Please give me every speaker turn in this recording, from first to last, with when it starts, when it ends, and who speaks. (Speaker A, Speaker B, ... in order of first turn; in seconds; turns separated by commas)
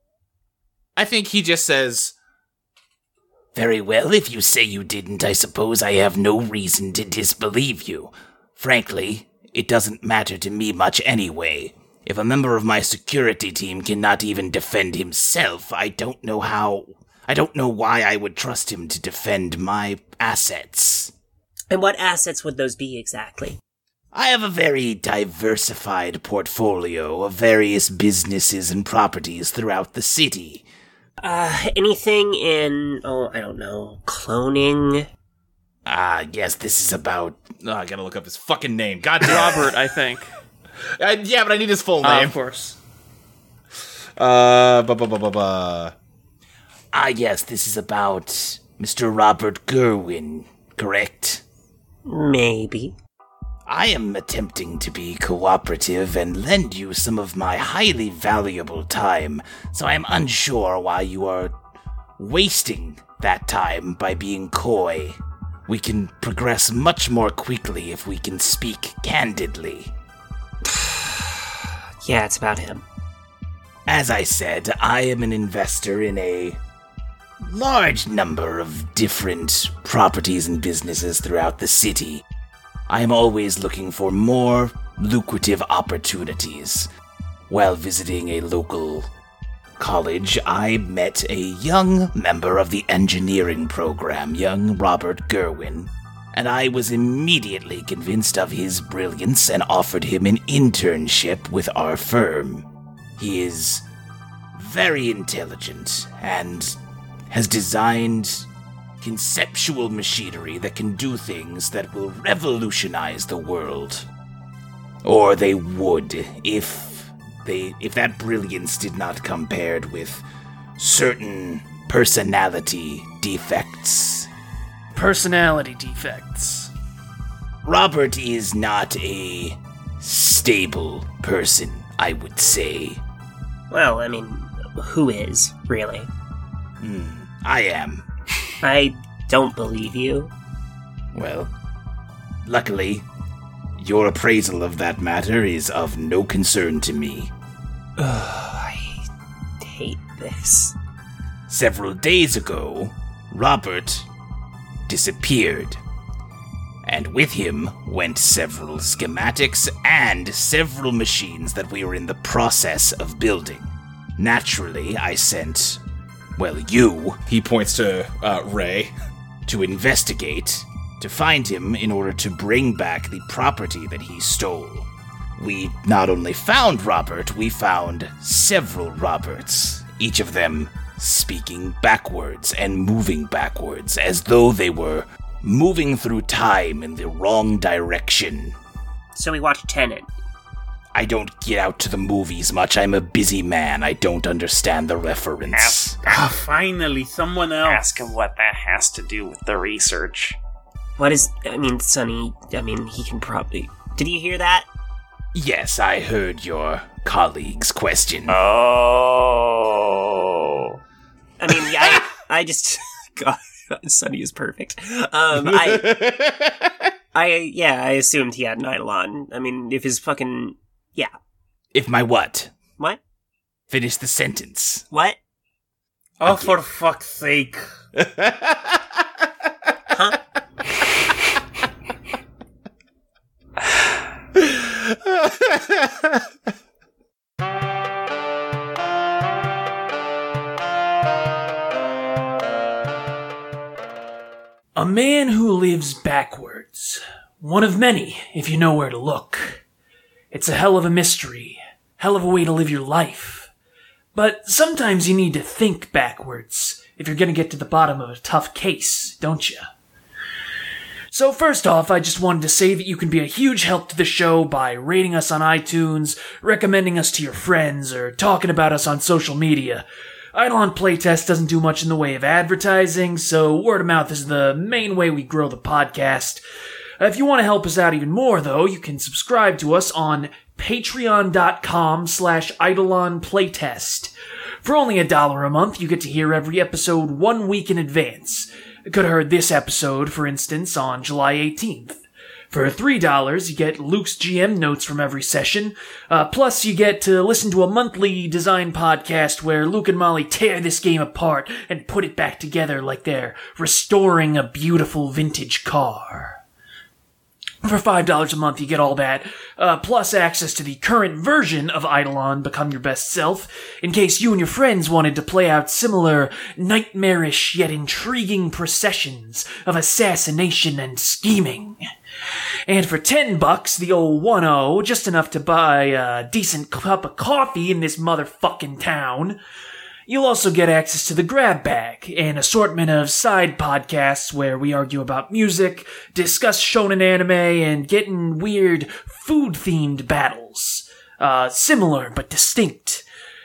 Speaker A: 0.9-2.1, Speaker B: 3.5-21.1, Speaker C: 21.7-23.6, Speaker B: 24.1-30.6, Speaker C: 31.2-35.1, Speaker B: 35.9-37.6, Speaker A: 37.6-39.7, Speaker D: 39.2-40.3, Speaker A: 41.0-42.4, Speaker D: 42.0-42.8, Speaker A: 44.2-45.9, Speaker B: 46.9-51.4, Speaker C: 52.0-53.0, Speaker B: 53.7-61.5, Speaker B: 62.2-65.2, Speaker B: 65.7-69.9, Speaker C: 70.7-71.2, Speaker C: 72.0-72.8, Speaker B: 73.9-76.6, Speaker B: 77.4-82.2, Speaker B: 82.9-86.9, Speaker B: 87.5-89.1, Speaker B: 89.8-102.7, Speaker B: 103.2-103.8, Speaker B: 104.5-106.8, Speaker B: 107.3-108.5, Speaker B: 109.0-114.1, Speaker B: 115.0-120.2, Speaker B: 120.8-124.3, Speaker D: 124.9-126.7, Speaker B: 127.6-133.0, Speaker C: 133.7-136.1, Speaker B: 136.8-138.0, Speaker C: 138.6-140.3, Speaker B: 141.1-141.5, Speaker B: 142.4-143.0, Speaker B: 143.8-147.3, Speaker C: 148.0-149.0, Speaker C: 149.6-150.7, Speaker B: 151.5-154.1, Speaker B: 154.9-155.8, Speaker B: 156.8-165.8, Speaker B: 166.4-167.2, Speaker A: 167.2-168.9, Speaker B: 169.4-188.5, Speaker C: 189.1-190.1, Speaker B: 190.9-196.0, Speaker E: 195.5-196.2, Speaker F: 196.1-198.1, Speaker E: 197.6-200.4, Speaker C: 201.0-204.7, Speaker B: 205.3-208.4, Speaker E: 208.3-210.8, Speaker C: 211.4-216.0, Speaker A: 215.3-216.7, Speaker C: 217.1-221.1, Speaker B: 221.7-222.5, Speaker B: 223.7-224.8, Speaker C: 224.9-225.2, Speaker F: 226.2-227.6, Speaker A: 227.9-228.8, Speaker C: 229.9-230.2, Speaker A: 234.4-236.2, Speaker D: 244.8-249.6, Speaker D: 250.3-253.5, Speaker D: 254.1-259.7, Speaker D: 261.1-276.4, Speaker D: 277.0-306.4, Speaker D: 307.6-321.8, Speaker D: 322.7-329.4, Speaker D: 330.1-343.0